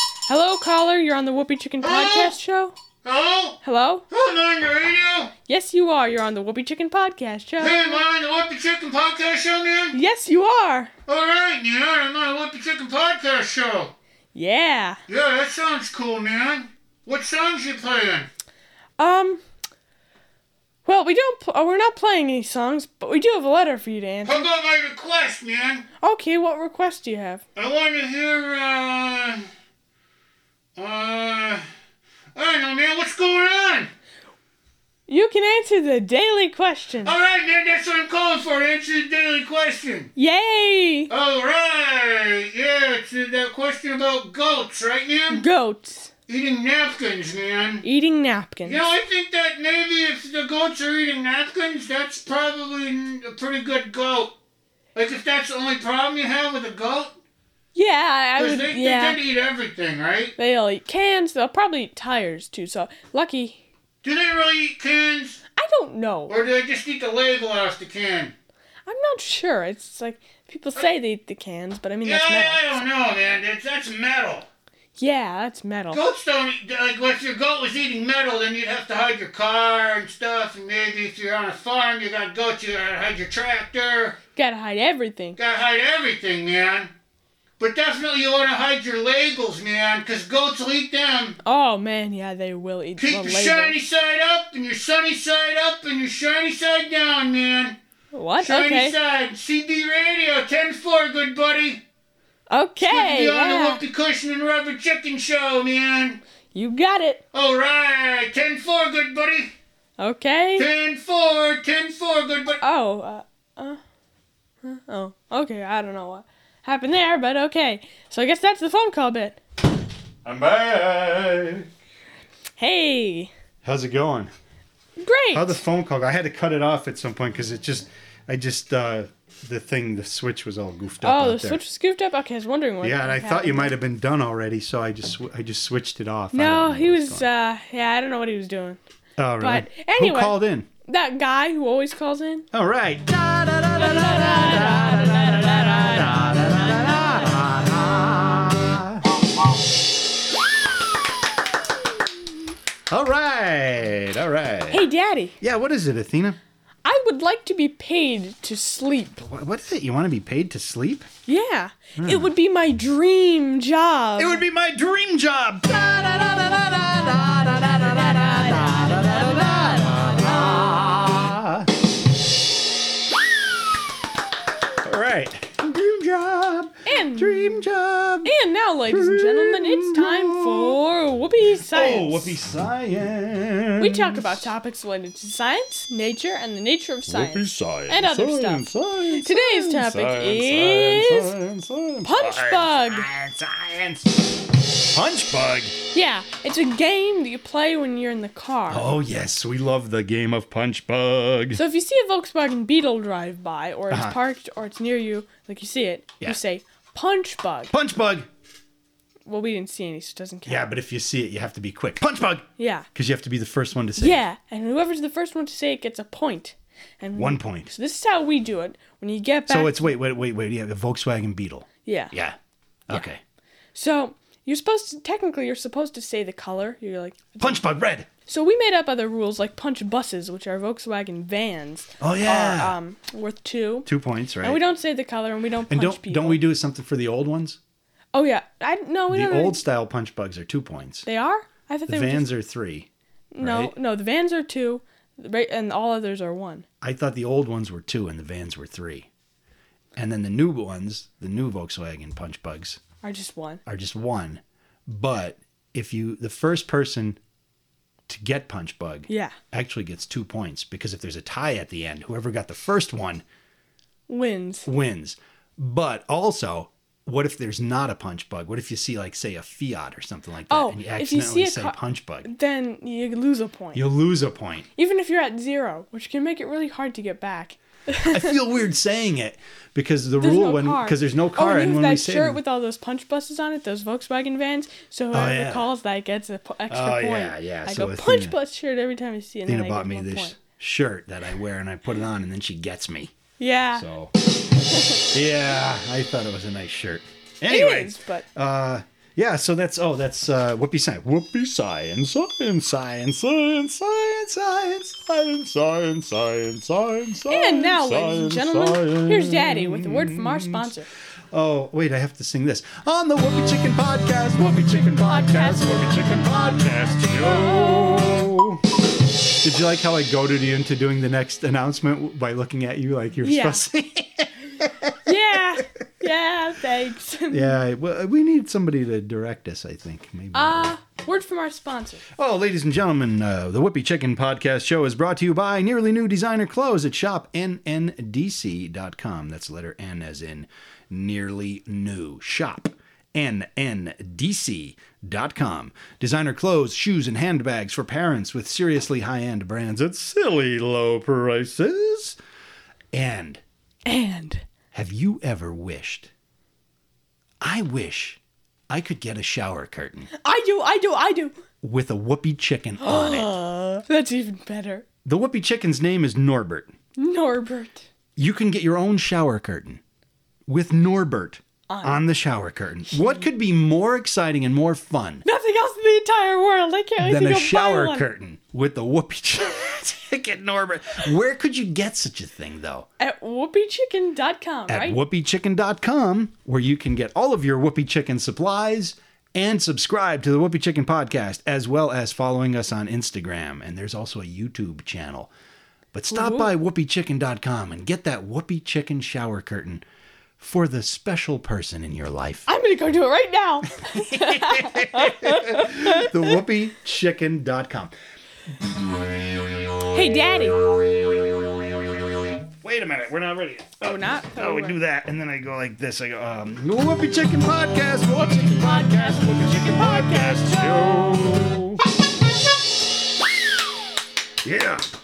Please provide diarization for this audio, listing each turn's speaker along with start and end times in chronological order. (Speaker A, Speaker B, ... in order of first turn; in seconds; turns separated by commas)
Speaker A: 0.3-2.8, Speaker B: 1.8-2.3, Speaker B: 3.0-3.6, Speaker A: 3.6-4.0, Speaker B: 4.1-5.3, Speaker A: 5.5-8.0, Speaker B: 7.6-9.9, Speaker A: 9.9-10.9, Speaker B: 11.1-13.9, Speaker A: 14.3-15.0, Speaker B: 15.1-18.3, Speaker A: 19.0-19.4, Speaker A: 20.9-24.5, Speaker B: 24.2-25.9, Speaker A: 26.0-27.4, Speaker B: 27.5-29.5, Speaker B: 30.8-31.6, Speaker B: 32.3-33.9, Speaker A: 35.1-37.1, Speaker B: 37.0-40.1, Speaker A: 40.1-41.1, Speaker B: 41.1-45.4, Speaker A: 45.3-46.1, Speaker B: 46.3-47.8, Speaker A: 47.8-48.8, Speaker B: 48.6-54.3, Speaker B: 54.9-57.1, Speaker A: 57.7-59.2, Speaker B: 58.4-60.3, Speaker A: 60.4-63.6, Speaker B: 64.0-65.4, Speaker A: 65.5-66.3, Speaker B: 66.3-68.3, Speaker A: 68.9-72.8, Speaker B: 72.0-74.5, Speaker A: 75.0-76.0, Speaker B: 75.9-84.2, Speaker A: 84.3-85.4, Speaker B: 85.4-86.9, Speaker B: 87.6-91.4, Speaker A: 91.4-93.8, Speaker B: 93.0-97.8, Speaker A: 98.1-99.0, Speaker B: 98.4-101.8, Speaker A: 102.5-103.8, Speaker B: 102.8-106.2, Speaker A: 106.5-107.2, Speaker B: 107.3-109.5, Speaker A: 110.0-110.7, Speaker B: 110.6-112.6, Speaker A: 112.6-113.8, Speaker A: 114.6-119.4, Speaker C: 120.2-121.7, Speaker A: 122.6-123.3, Speaker C: 123.6-124.3, Speaker A: 125.0-125.6, Speaker C: 125.3-131.6, Speaker A: 131.0-133.7, Speaker C: 132.8-137.3, Speaker A: 136.3-138.8, Speaker C: 139.2-140.7, Speaker A: 139.4-142.5, Speaker C: 142.5-149.0, Speaker A: 143.8-147.0, Speaker C: 152.9-154.8, Speaker A: 154.7-155.4, Speaker C: 155.4-156.4, Speaker A: 156.8-159.2, Speaker C: 159.2-161.1, Speaker A: 161.3-164.4, Speaker C: 162.0-162.3, Speaker C: 164.2-171.7, Speaker A: 167.8-170.1, Speaker C: 174.8-178.3, Speaker A: 176.8-177.6, Speaker A: 178.2-182.3, Speaker C: 178.9-180.8, Speaker C: 181.7-184.5, Speaker A: 183.8-191.3, Speaker C: 187.1-194.3, Speaker A: 192.0-193.1, Speaker C: 194.9-195.7, Speaker A: 195.9-198.9, Speaker C: 198.7-201.6, Speaker A: 201.5-207.7, Speaker C: 203.9-204.2, Speaker C: 207.7-208.3, Speaker A: 209.2-210.7, Speaker C: 210.4-214.2, Speaker A: 212.6-212.9, Speaker A: 214.0-219.9, Speaker C: 217.2-217.7, Speaker C: 219.5-222.4, Speaker A: 221.8-222.1, Speaker C: 222.9-223.2, Speaker A: 223.7-227.6, Speaker C: 227.4-228.1, Speaker A: 228.2-233.9, Speaker C: 232.0-232.8, Speaker C: 233.8-234.6, Speaker A: 234.4-236.4, Speaker C: 235.7-237.6, Speaker A: 238.1-239.6, Speaker C: 239.1-241.1, Speaker A: 241.1-242.3, Speaker C: 241.9-242.9, Speaker A: 243.3-246.7, Speaker C: 243.4-243.7, Speaker C: 246.8-249.1, Speaker C: 249.9-252.8, Speaker A: 253.0-253.6, Speaker C: 253.7-257.2, Speaker C: 258.1-263.2, Speaker A: 259.1-259.4, Speaker A: 264.1-264.7, Speaker C: 264.6-272.3, Speaker A: 270.5-273.8, Speaker C: 273.7-274.7, Speaker A: 274.8-278.4, Speaker C: 278.0-282.4, Speaker A: 280.2-290.4, Speaker C: 285.1-285.7, Speaker C: 286.7-288.4, Speaker C: 289.5-293.1, Speaker A: 293.4-293.9, Speaker C: 293.7-294.1, Speaker C: 294.9-310.7, Speaker A: 297.5-298.2, Speaker A: 307.3-310.9, Speaker C: 311.3-318.6, Speaker A: 315.0-318.0, Speaker C: 319.4-325.6, Speaker A: 323.2-323.6, Speaker A: 325.0-327.6, Speaker C: 327.3-330.7, Speaker A: 330.3-332.0, Speaker C: 332.1-352.2, Speaker C: 352.9-353.4, Speaker A: 353.9-354.4, Speaker C: 354.7-356.1, Speaker C: 357.4-360.1, Speaker A: 360.2-361.4, Speaker C: 361.6-363.4, Speaker A: 362.8-364.8, Speaker C: 365.0-366.7, Speaker A: 367.0-367.9, Speaker C: 368.1-369.8, Speaker C: 370.5-375.2, Speaker A: 371.7-372.0, Speaker A: 375.2-378.1, Speaker C: 377.0-382.9, Speaker A: 383.0-385.0, Speaker C: 384.7-395.3, Speaker C: 395.9-399.8, Speaker A: 396.1-396.5, Speaker C: 400.4-402.5, Speaker A: 402.5-406.4, Speaker C: 403.8-407.9, Speaker A: 409.9-410.6, Speaker C: 412.6-421.8, Speaker A: 413.8-414.8, Speaker A: 418.6-421.0, Speaker C: 424.4-424.8